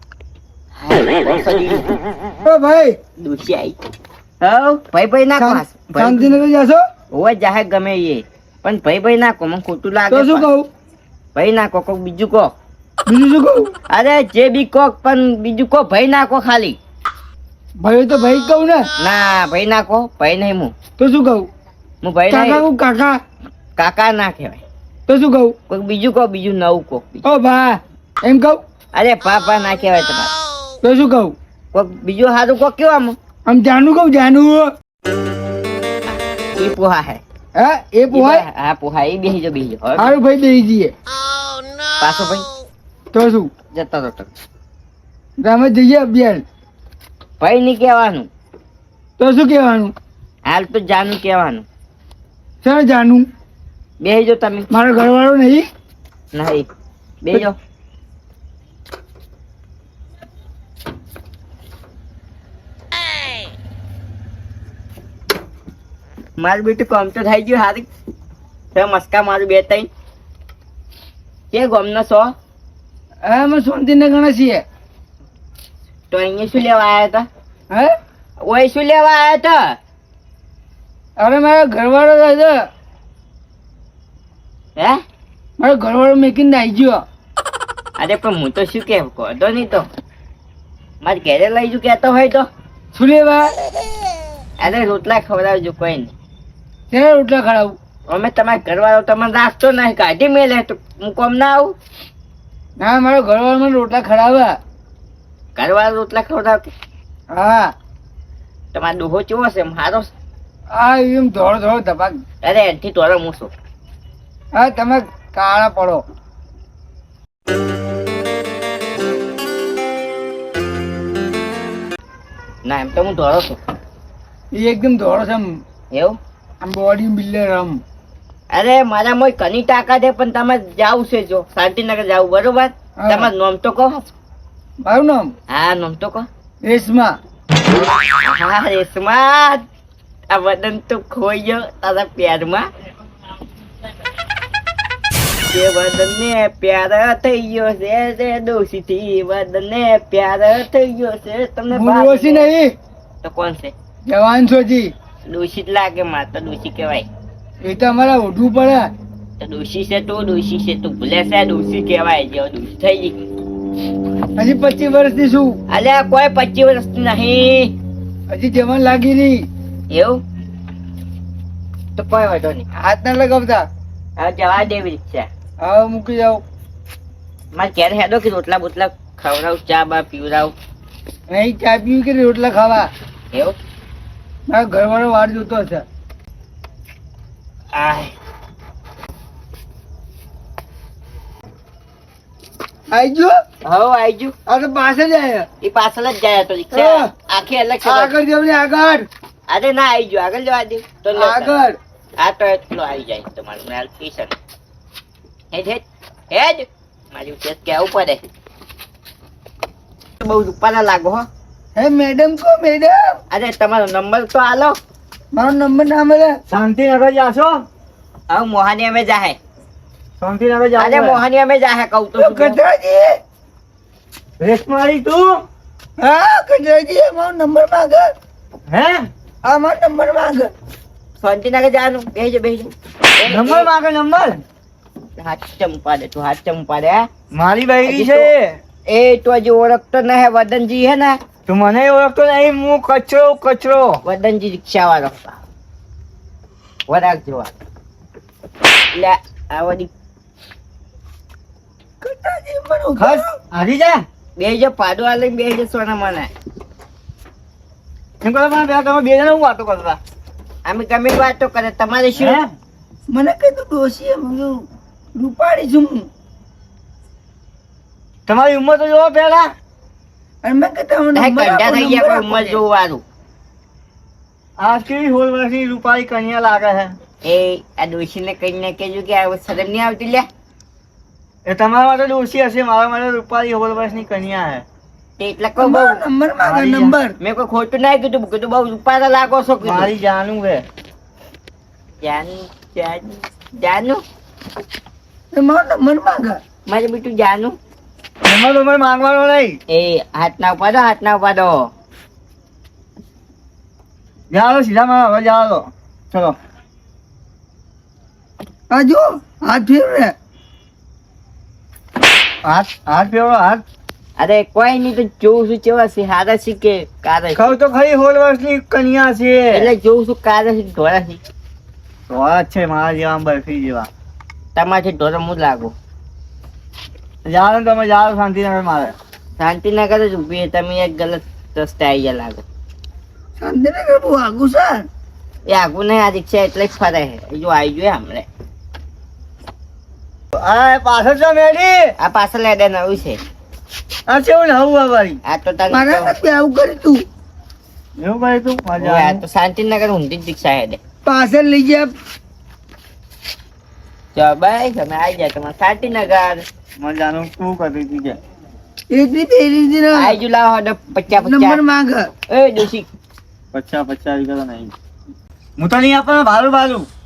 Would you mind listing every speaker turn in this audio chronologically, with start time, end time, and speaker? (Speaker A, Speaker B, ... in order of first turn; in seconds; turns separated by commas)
Speaker A: 0.8-2.0, Speaker B: 2.5-3.0, Speaker A: 3.2-3.8, Speaker A: 4.4-6.3, Speaker B: 5.4-6.8, Speaker A: 7.1-10.5, Speaker B: 10.1-10.7, Speaker A: 11.3-12.5, Speaker B: 13.1-13.7, Speaker A: 13.9-16.8, Speaker B: 17.8-18.9, Speaker A: 19.0-20.7, Speaker B: 21.0-21.5, Speaker A: 22.0-22.7, Speaker B: 22.3-23.2, Speaker A: 23.8-24.6, Speaker B: 25.1-25.6, Speaker A: 25.7-27.2, Speaker B: 27.2-28.6, Speaker A: 28.9-30.3, Speaker B: 30.8-31.3, Speaker A: 31.7-33.2, Speaker B: 33.5-34.7, Speaker A: 36.6-37.2, Speaker B: 37.6-38.5, Speaker A: 38.1-40.1, Speaker B: 40.0-40.9, Speaker A: 42.0-42.5, Speaker B: 43.1-43.5, Speaker A: 43.7-44.3, Speaker B: 45.4-46.4, Speaker A: 47.4-48.3, Speaker B: 49.2-49.9, Speaker A: 50.5-51.7, Speaker B: 52.6-53.3, Speaker A: 54.0-54.7, Speaker B: 54.7-55.7, Speaker A: 56.3-56.7, Speaker A: 57.2-57.6, Speaker A: 66.4-67.9, Speaker A: 68.7-69.9, Speaker A: 71.5-72.3, Speaker B: 73.2-74.6, Speaker A: 76.1-77.3, Speaker A: 78.5-79.8, Speaker B: 81.2-82.6, Speaker B: 85.6-87.0, Speaker A: 88.0-89.9, Speaker A: 91.0-92.5, Speaker B: 93.0-93.6, Speaker A: 94.6-96.1, Speaker B: 96.9-97.8, Speaker A: 98.1-101.7, Speaker B: 102.8-104.6, Speaker A: 105.6-106.7, Speaker B: 107.3-107.7, Speaker A: 108.7-110.1, Speaker B: 110.8-112.2, Speaker A: 112.4-113.5, Speaker B: 114.6-116.0, Speaker A: 122.7-123.6, Speaker B: 124.5-125.5, Speaker A: 125.9-126.2, Speaker B: 126.6-127.8, Speaker A: 128.5-134.1, Speaker B: 133.0-133.3, Speaker B: 134.8-135.3, Speaker A: 135.5-136.3, Speaker B: 136.6-137.2, Speaker A: 138.2-139.6, Speaker A: 140.3-142.7, Speaker A: 145.5-152.5, Speaker B: 151.7-152.8, Speaker A: 153.2-153.7, Speaker B: 154.1-154.9, Speaker A: 155.3-157.1, Speaker B: 157.6-158.9, Speaker A: 159.4-163.3, Speaker B: 164.4-165.6, Speaker A: 165.7-167.7, Speaker B: 168.3-169.5, Speaker A: 169.9-170.2, Speaker A: 172.0-172.7, Speaker B: 172.8-173.7, Speaker A: 174.2-175.3, Speaker B: 175.6-176.4, Speaker A: 177.5-180.5, Speaker B: 181.3-182.9, Speaker B: 184.5-185.8, Speaker A: 187.7-188.1, Speaker B: 192.9-193.3, Speaker A: 193.7-194.3, Speaker B: 194.5-195.5, Speaker A: 195.6-198.2, Speaker B: 196.7-197.1, Speaker B: 197.8-199.1, Speaker A: 199.5-201.6, Speaker B: 201.2-201.8, Speaker A: 202.2-204.3, Speaker A: 205.5-208.3, Speaker A: 210.2-211.3, Speaker B: 211.8-213.2, Speaker A: 213.3-214.8, Speaker B: 215.3-216.4, Speaker C: 216.5-217.7, Speaker A: 218.3-219.4, Speaker C: 220.2-221.2, Speaker A: 220.8-222.6, Speaker B: 222.2-223.2, Speaker C: 224.4-225.4, Speaker B: 226.0-228.1, Speaker C: 228.7-229.1, Speaker B: 229.5-230.5, Speaker A: 231.2-233.7, Speaker C: 233.3-234.4, Speaker A: 235.2-237.1, Speaker C: 237.3-238.6, Speaker A: 237.8-238.3, Speaker A: 238.9-241.2, Speaker C: 241.5-244.0, Speaker A: 244.0-245.4, Speaker A: 246.9-247.5, Speaker A: 248.9-249.9, Speaker B: 252.0-253.3, Speaker C: 253.0-254.0, Speaker A: 254.4-256.3, Speaker C: 258.2-260.0, Speaker A: 260.7-262.4, Speaker C: 262.2-262.5, Speaker B: 263.1-266.1, Speaker C: 268.3-269.5, Speaker B: 270.4-272.6, Speaker A: 271.1-273.0, Speaker C: 274.6-276.9, Speaker A: 277.2-280.3, Speaker C: 281.5-284.6, Speaker A: 285.2-286.0, Speaker B: 285.6-287.1, Speaker C: 286.4-287.0, Speaker A: 287.2-289.9, Speaker C: 289.6-290.6, Speaker A: 292.0-294.0, Speaker B: 295.3-296.4, Speaker A: 296.7-297.6, Speaker C: 298.2-299.6, Speaker A: 299.7-301.7, Speaker C: 304.3-306.4, Speaker B: 308.7-310.1, Speaker C: 312.4-313.6, Speaker A: 314.2-317.6, Speaker C: 317.4-319.7, Speaker A: 319.5-321.2, Speaker C: 322.1-323.9, Speaker A: 324.6-325.8, Speaker C: 327.3-328.9, Speaker A: 329.4-332.4, Speaker B: 333.4-334.9, Speaker A: 335.5-338.3, Speaker C: 340.4-341.9, Speaker A: 342.0-343.2, Speaker C: 344.1-345.2, Speaker A: 345.2-346.2, Speaker B: 345.7-347.1, Speaker C: 348.0-349.2, Speaker A: 348.8-350.8, Speaker B: 351.1-351.9, Speaker A: 354.1-356.4, Speaker C: 356.8-358.2, Speaker B: 358.9-360.1, Speaker A: 359.9-361.6, Speaker B: 361.2-362.1, Speaker A: 362.3-362.9, Speaker C: 363.5-364.7, Speaker C: 365.6-366.9